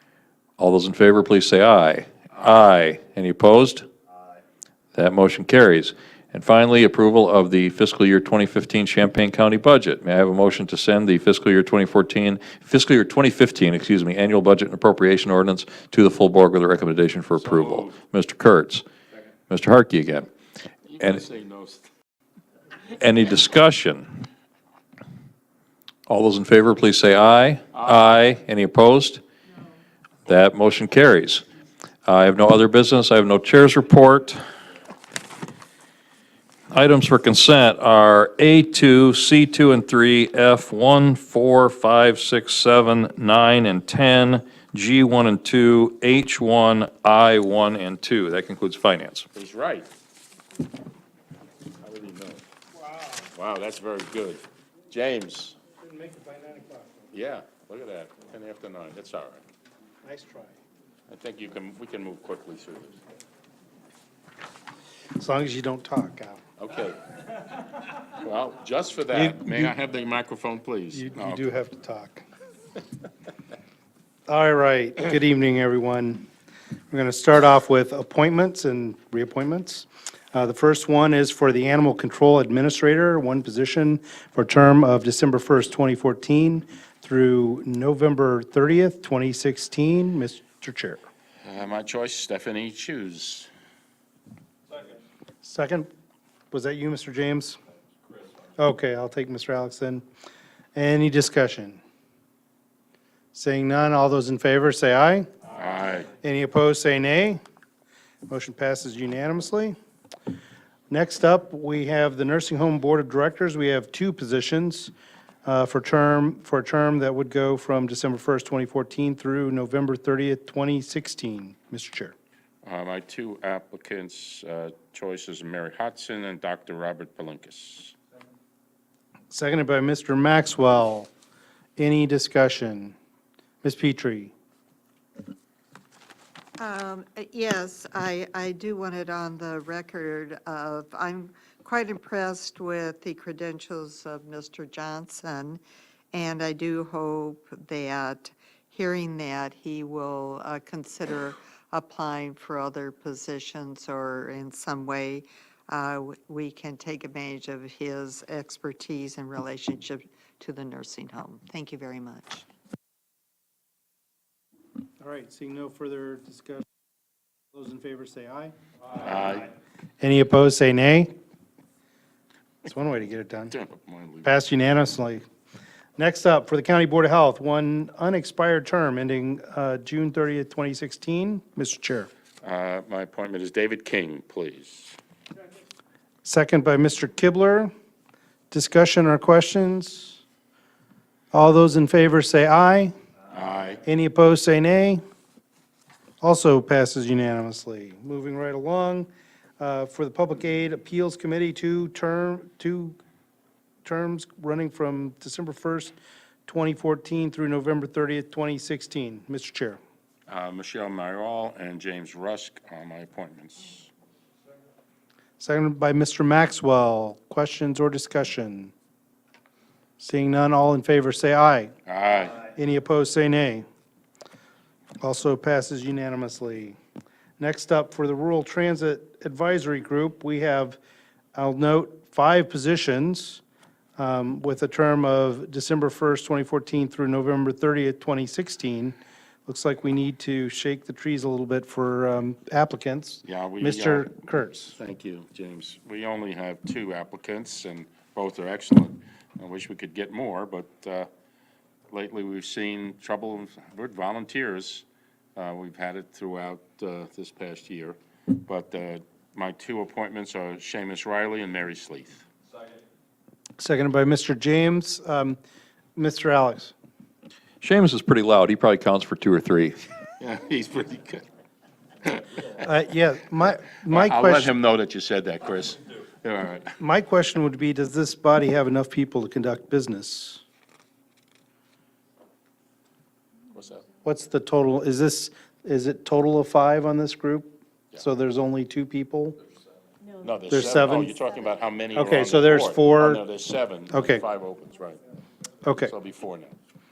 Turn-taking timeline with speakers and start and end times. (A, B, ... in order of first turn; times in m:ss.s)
0:00.6-0:03.8 A
0:05.0-0:18.8 A
0:17.4-0:18.0 B
0:19.5-0:20.3 A
0:20.9-0:21.9 B
0:23.0-0:24.0 A
0:26.1-0:29.2 A
0:30.2-0:31.4 A
0:32.0-0:34.4 A
0:36.7-0:49.3 A
0:49.3-0:49.9 B
0:51.8-0:52.4 B
0:53.3-0:55.6 B
0:55.8-0:57.1 C
0:57.1-0:59.4 B
1:00.0-1:00.5 C
1:01.1-1:03.0 B
1:05.2-1:06.4 C
1:06.6-1:07.0 B
1:08.2-1:11.5 B
1:09.1-1:09.7 C
1:10.9-1:12.2 C
1:14.3-1:16.3 C
1:16.9-1:31.0 C
1:31.4-1:33.5 B
1:35.4-1:35.9 C
1:36.5-1:37.6 C
1:38.6-1:40.0 C
1:40.8-1:41.8 C
1:43.3-1:45.3 C
1:45.5-1:46.1 B
1:46.2-1:47.4 C
1:48.3-1:49.8 C
1:50.9-1:54.9 C
1:55.4-2:02.1 C
2:02.6-2:07.9 B
2:09.3-2:11.1 C
2:11.8-2:12.9 C
2:13.6-2:14.3 C
2:16.6-2:25.6 D
2:26.1-2:42.4 D
2:45.0-2:46.6 C
2:47.5-2:48.5 C
2:49.0-2:49.5 B
2:50.0-2:51.1 C
2:52.6-2:53.5 C
2:53.5-2:54.3 B
2:54.2-2:55.2 C
2:56.0-3:02.1 C
3:02.4-3:05.0 B
3:06.2-3:07.7 C
3:08.5-3:10.2 C
3:11.3-3:12.9 C
3:13.3-3:13.8 B
3:13.8-3:15.0 C
3:16.2-3:23.0 C
3:23.8-3:25.9 C
3:26.4-3:29.8 C
3:30.3-3:33.9 B
3:35.4-3:38.7 C
3:40.0-3:41.7 C
3:41.8-3:42.4 B
3:42.5-3:43.7 C
3:45.0-3:46.8 C
3:47.4-3:50.8 C
3:51.3-3:53.4 C
3:54.0-4:04.8 C
4:03.2-4:04.1 B
4:04.8-4:11.1 B
4:11.9-4:14.8 B
4:15.4-4:22.2 B
4:23.6-4:25.4 C
4:26.0-4:26.7 C
4:27.6-4:29.8 A
4:30.2-4:31.2 B
4:32.1-4:32.5 B
4:32.6-4:34.5 C
4:33.9-4:36.7 B
4:36.8-4:40.4 C
4:43.5-4:43.8 B
4:44.0-4:49.4 C
4:50.2-4:55.0 B
4:50.5-4:51.1 C
4:51.9-4:53.2 C
4:53.9-4:54.2 C
4:55.6-4:55.9 C
4:55.8-4:56.6 B